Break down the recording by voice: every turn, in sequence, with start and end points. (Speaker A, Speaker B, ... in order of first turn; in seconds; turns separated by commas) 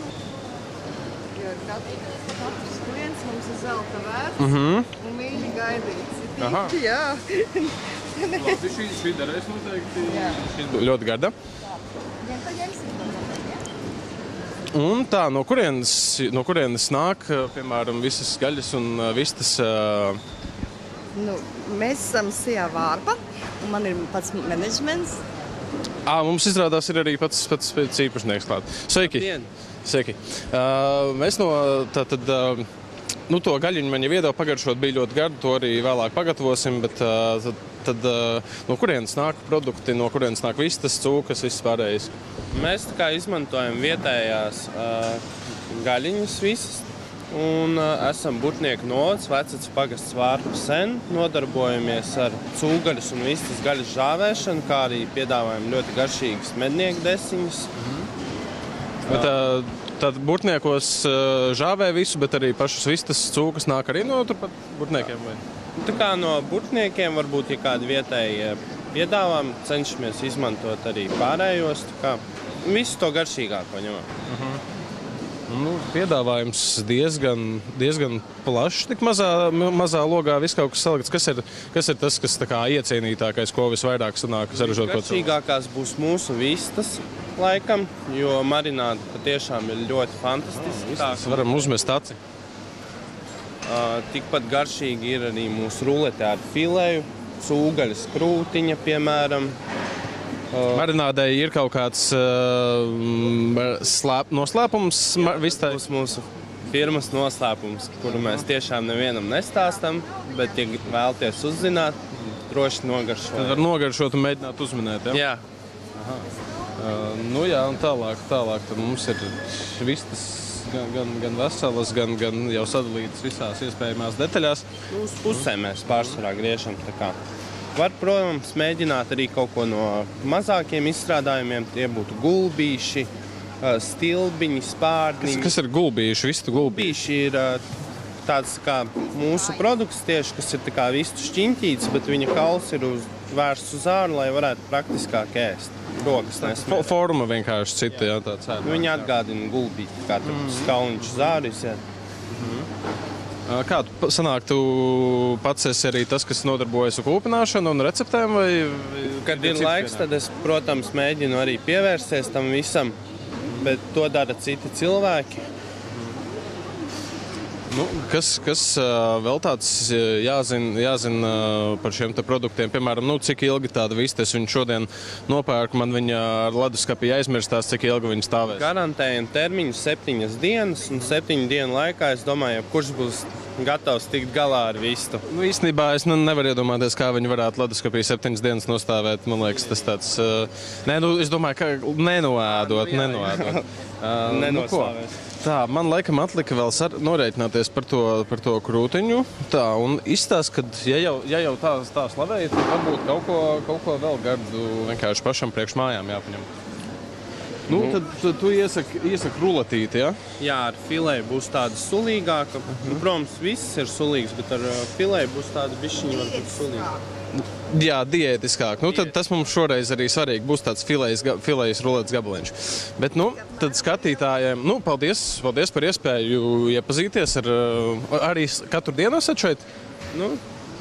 Speaker A: 1.3-8.6, Speaker B: 4.4-4.9, Speaker B: 6.4-6.7, Speaker B: 8.3-11.3, Speaker A: 10.1-10.4, Speaker A: 12.2-13.6, Speaker B: 14.7-20.2, Speaker A: 21.1-25.2, Speaker B: 26.1-29.3, Speaker C: 29.0-29.5, Speaker B: 29.8-32.7, Speaker B: 33.3-42.1, Speaker C: 42.5-57.7, Speaker B: 57.8-58.1, Speaker B: 59.0-65.4, Speaker C: 65.8-74.1, Speaker B: 74.3-74.6, Speaker B: 75.5-85.3, Speaker C: 84.5-91.7, Speaker B: 90.4-92.2, Speaker C: 93.6-99.6, Speaker C: 100.5-100.9, Speaker B: 100.7-105.8, Speaker C: 105.2-113.6, Speaker B: 108.0-108.4, Speaker B: 113.3-115.2, Speaker C: 115.1-115.4, Speaker B: 115.9-116.2, Speaker B: 116.8-124.7, Speaker C: 124.9-127.2, Speaker B: 125.3-126.2, Speaker C: 127.7-133.1, Speaker C: 133.6-135.5, Speaker B: 135.2-136.9, Speaker C: 136.6-137.6, Speaker C: 138.2-147.0, Speaker B: 146.3-149.1, Speaker C: 148.6-151.8, Speaker B: 150.2-151.3, Speaker B: 152.3-152.7, Speaker B: 153.5-160.1, Speaker C: 159.2-162.9, Speaker C: 163.5-165.4, Speaker B: 165.9-166.1, Speaker B: 167.7-178.7, Speaker C: 178.5-185.2, Speaker B: 185.3-206.5, Speaker C: 192.5-193.6, Speaker C: 194.2-195.1, Speaker B: 207.7-210.2, Speaker C: 210.4-216.9, Speaker A: 216.0-217.0, Speaker B: 217.4-229.6, Speaker C: 218.9-219.1, Speaker A: 223.6-224.1, Speaker C: 230.1-230.4